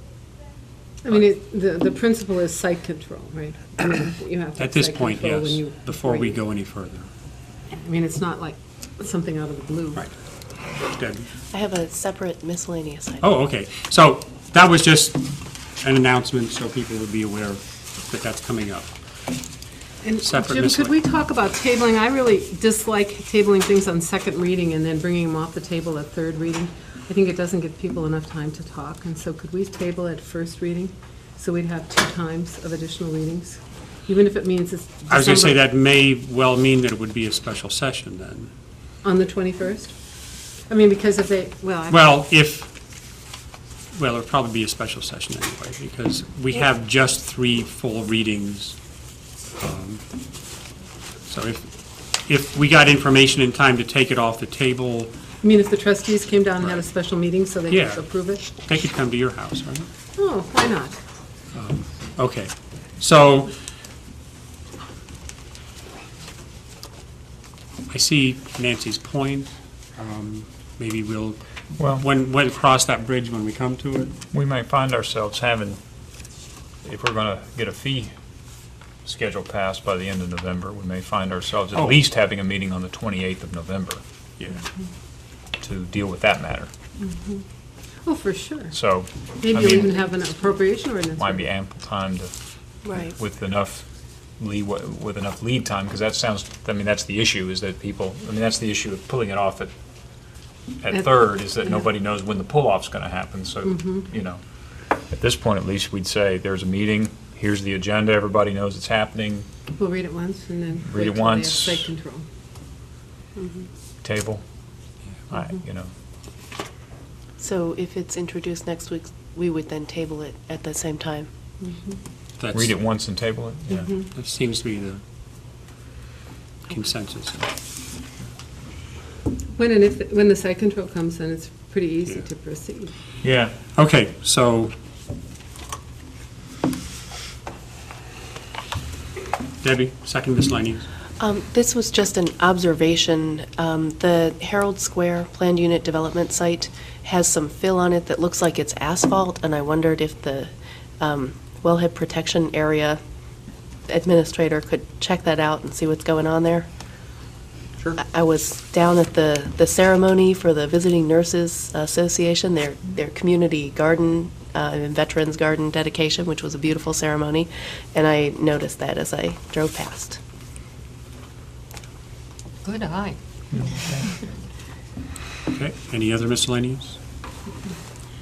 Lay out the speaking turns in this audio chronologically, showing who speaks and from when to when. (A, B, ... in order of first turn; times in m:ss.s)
0:01.0-0:06.4 A
0:04.6-0:07.1 B
0:07.7-0:10.0 A
0:10.8-0:11.3 B
0:11.5-0:13.2 C
0:13.2-0:18.9 B
0:20.0-0:35.6 A
0:20.2-0:21.0 B
0:35.1-0:38.5 B
0:39.0-0:40.0 A
0:40.7-0:42.1 A
0:41.9-0:42.7 B
0:43.9-0:48.8 B
0:49.6-0:50.0 B
0:51.3-0:55.1 B
0:55.4-0:58.4 A
0:57.7-0:59.9 B
1:00.2-1:01.0 A
1:01.5-1:03.5 B
1:07.9-1:11.4 B
1:11.8-1:12.0 D
1:11.9-1:14.2 B
1:14.3-1:15.8 D
1:16.8-1:18.1 D
1:19.0-1:24.0 D
1:25.6-1:26.7 D
1:27.0-1:27.4 A
1:28.0-1:28.8 A
1:28.7-1:30.0 D
1:29.4-1:31.4 A
1:31.2-1:32.3 D
1:32.8-1:33.2 C
1:32.9-1:33.9 D
1:34.4-1:39.7 D
1:40.8-1:44.4 D
1:43.7-1:44.0 A
1:45.1-1:49.5 D
1:49.7-1:52.2 A
1:50.8-1:51.9 D
1:53.4-1:53.6 A
1:54.0-1:54.4 D
1:55.3-1:55.9 D
1:57.4-2:01.3 C
2:02.4-2:02.7 B
2:02.5-2:04.0 D
2:04.1-2:05.0 B
2:06.7-2:07.5 B
2:09.6-2:12.9 A
2:13.2-2:13.6 D
2:13.7-2:14.7 B
2:19.6-2:20.9 B
2:21.2-2:33.0 C
2:33.9-2:36.7 C
2:38.0-2:50.2 C
2:52.6-2:53.2 A
2:53.5-2:54.1 D
2:55.5-2:57.0 B